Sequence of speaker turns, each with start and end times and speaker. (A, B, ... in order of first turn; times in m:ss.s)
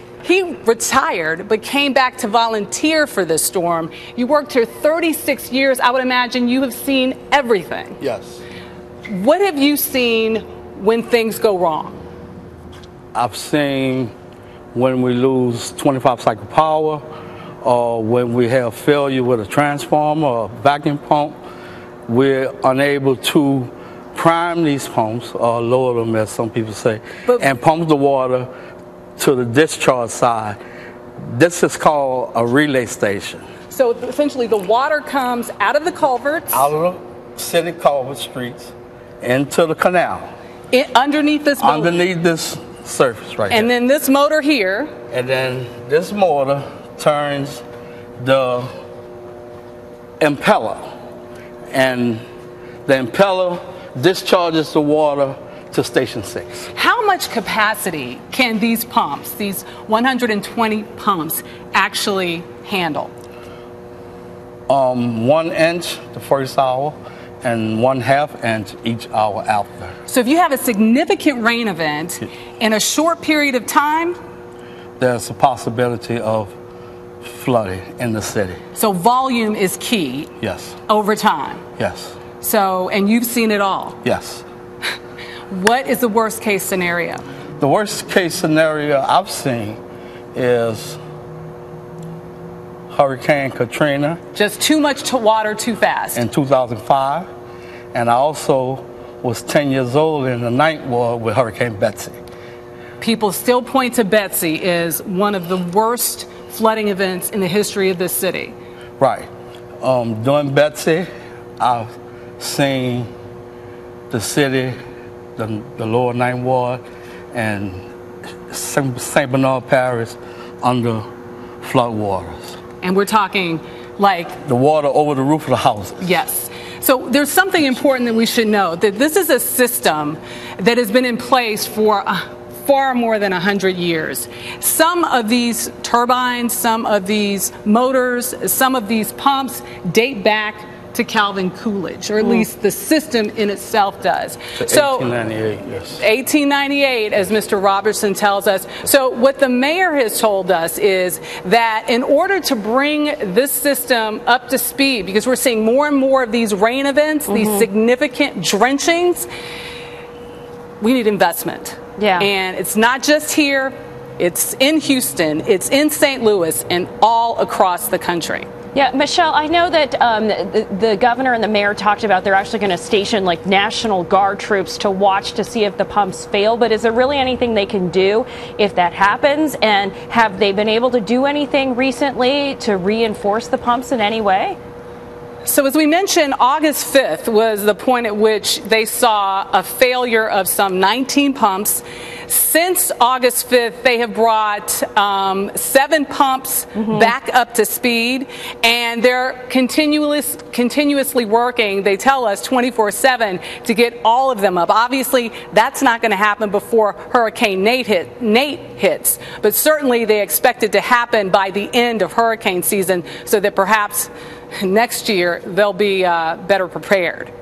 0:00.2-0:08.0 A
0:08.0-0:08.4 B
0:09.1-0:12.0 A
0:13.1-0:14.1 B
0:14.7-0:17.0 B
0:17.6-0:21.4 B
0:22.1-0:28.5 B
0:29.2-0:30.6 B
0:31.2-0:33.4 B
0:33.7-0:36.7 A
0:36.5-0:40.3 B
0:40.7-0:42.0 A
0:41.6-0:43.7 B
0:43.5-0:44.9 A
0:45.1-0:47.6 B
0:48.2-0:48.7 B
0:50.2-0:50.9 B
0:51.7-0:52.2 B
0:52.8-0:56.7 B
0:56.7-1:03.1 A
1:04.7-1:09.9 B
1:10.1-1:14.2 A
1:15.0-1:16.5 B
1:17.2-1:18.6 B
1:18.7-1:20.3 A
1:20.4-1:20.8 B
1:20.8-1:21.6 A
1:21.8-1:22.2 B
1:22.4-1:24.0 A
1:24.0-1:24.4 B
1:25.5-1:27.2 A
1:27.6-1:29.8 B
1:30.3-1:31.0 B
1:32.9-1:34.2 B
1:34.3-1:36.2 A
1:36.2-1:37.3 B
1:37.9-1:42.2 B
1:43.0-1:48.6 A
1:49.0-1:49.3 B
1:49.8-1:51.1 B
1:51.6-1:53.1 B
1:54.1-1:54.8 B
1:55.4-1:57.8 B
1:58.5-2:01.1 B
2:01.6-2:02.6 B
2:02.8-2:04.4 A
2:04.4-2:06.1 B
2:06.0-2:25.1 A
2:22.2-2:22.4 C
2:24.6-2:26.0 B
2:26.0-2:39.3 A
2:37.3-2:37.7 C
2:40.8-2:48.5 A
2:42.0-2:42.3 C
2:48.7-3:04.6 C
3:05.4-3:37.3 A
3:16.7-3:17.1 C